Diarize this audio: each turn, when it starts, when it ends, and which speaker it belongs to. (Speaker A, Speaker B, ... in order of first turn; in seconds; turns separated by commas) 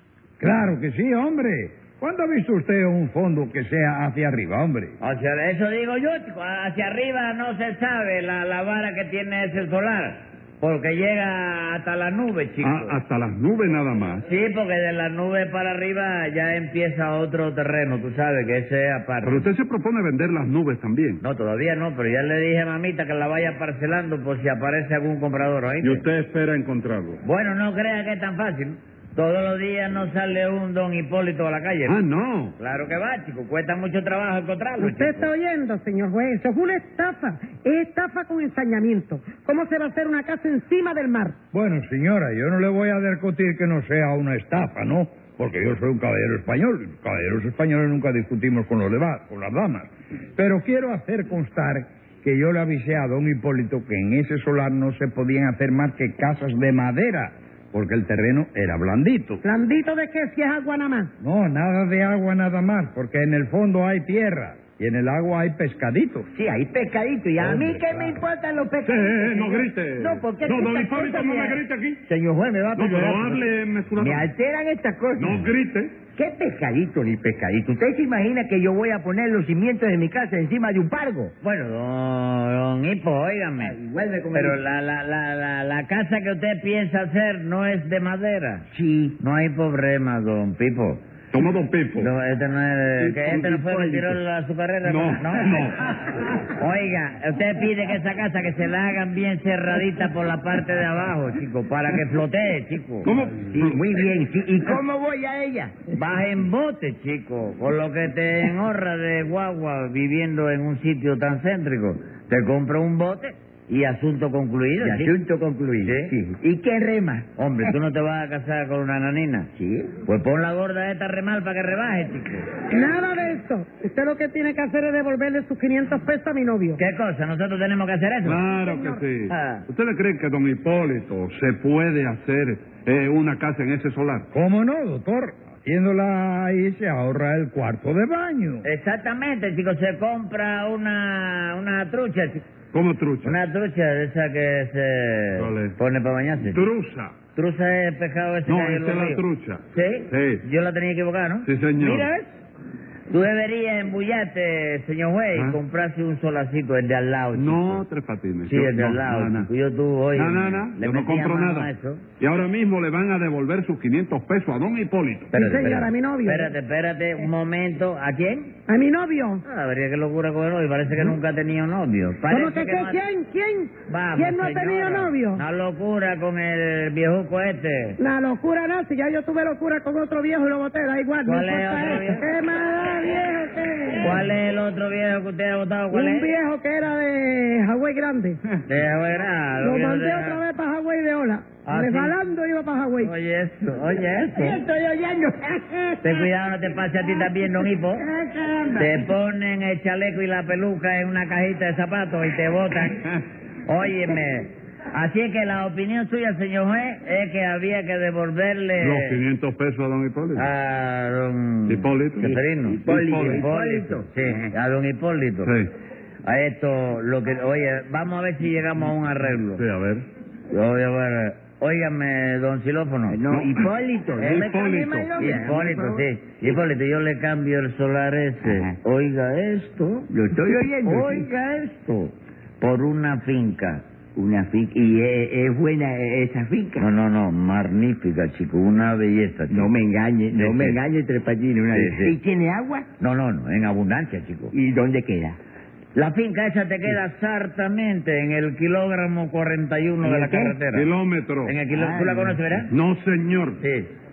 Speaker A: 0.4-5.0, Speaker B: 5.0-13.0, Speaker C: 12.6-14.2, Speaker B: 14.2-19.5, Speaker C: 19.2-21.2, Speaker B: 21.2-26.0, Speaker C: 25.8-27.2, Speaker B: 27.2-32.0, Speaker C: 31.8-32.5, Speaker B: 32.6-35.3, Speaker D: 34.8-41.4, Speaker A: 41.5-59.4, Speaker D: 59.4-61.1, Speaker A: 61.2-66.3, Speaker E: 66.3-75.5, Speaker A: 67.4-68.2, Speaker C: 68.8-72.0, Speaker C: 72.7-74.3, Speaker C: 75.2-76.0, Speaker E: 76.1-81.3, Speaker B: 81.4-83.7, Speaker E: 83.6-84.6, Speaker B: 84.3-88.7, Speaker E: 88.7-89.2, Speaker B: 89.2-91.0, Speaker C: 91.3-92.1, Speaker B: 92.0-95.6, Speaker E: 93.0-94.2, Speaker C: 94.8-96.0, Speaker B: 96.6-103.1, Speaker C: 103.0-103.8, Speaker E: 103.4-105.9, Speaker B: 105.9-115.1, Speaker E: 114.8-117.3, Speaker B: 115.8-116.1, Speaker B: 117.4-119.5, Speaker E: 119.5-119.9, Speaker B: 120.0-122.5, Speaker D: 122.7-126.8, Speaker B: 126.8-128.4, Speaker C: 128.2-134.3, Speaker D: 128.5-129.0, Speaker B: 129.3-129.6, Speaker A: 134.3-138.7, Speaker B: 138.6-142.4, Speaker C: 142.7-143.4, Speaker B: 143.2-146.6, Speaker C: 145.3-145.8, Speaker C: 146.4-147.2, Speaker B: 147.3-152.3, Speaker C: 148.4-150.4, Speaker C: 151.4-152.1, Speaker B: 153.1-157.8, Speaker C: 155.3-155.6, Speaker C: 157.3-159.5, Speaker B: 158.4-162.0, Speaker C: 160.1-165.3, Speaker D: 165.3-166.5, Speaker B: 165.3-168.6, Speaker D: 168.7-169.4, Speaker B: 169.4-173.0, Speaker D: 172.3-175.4, Speaker B: 173.9-178.0, Speaker D: 178.0-184.2, Speaker B: 181.2-182.2, Speaker B: 184.0-186.3, Speaker D: 185.9-188.4, Speaker B: 188.7-190.4, Speaker D: 189.6-193.1, Speaker B: 191.6-192.1, Speaker B: 193.0-194.6, Speaker E: 194.3-196.3, Speaker B: 196.0-198.0, Speaker E: 197.9-199.0, Speaker B: 198.8-203.1, Speaker B: 203.7-209.2, Speaker C: 208.8-210.5, Speaker B: 210.3-215.5, Speaker C: 211.7-213.4, Speaker E: 212.2-214.1, Speaker C: 215.4-215.7, Speaker B: 216.2-219.6, Speaker C: 219.6-220.1, Speaker B: 220.5-223.2, Speaker E: 223.1-226.1, Speaker C: 223.3-223.7, Speaker B: 224.2-230.1, Speaker C: 224.3-225.1, Speaker E: 228.4-228.8, Speaker E: 230.1-231.3, Speaker B: 230.8-233.8, Speaker E: 234.1-236.8, Speaker B: 236.8-239.7, Speaker E: 239.5-242.8, Speaker B: 240.3-240.8, Speaker B: 241.7-242.1, Speaker B: 243.0-244.5, Speaker E: 244.5-245.4, Speaker B: 245.9-250.9, Speaker E: 250.0-250.5, Speaker C: 250.7-251.6, Speaker B: 251.4-252.7, Speaker E: 251.7-252.4, Speaker C: 252.7-253.6, Speaker B: 253.6-253.9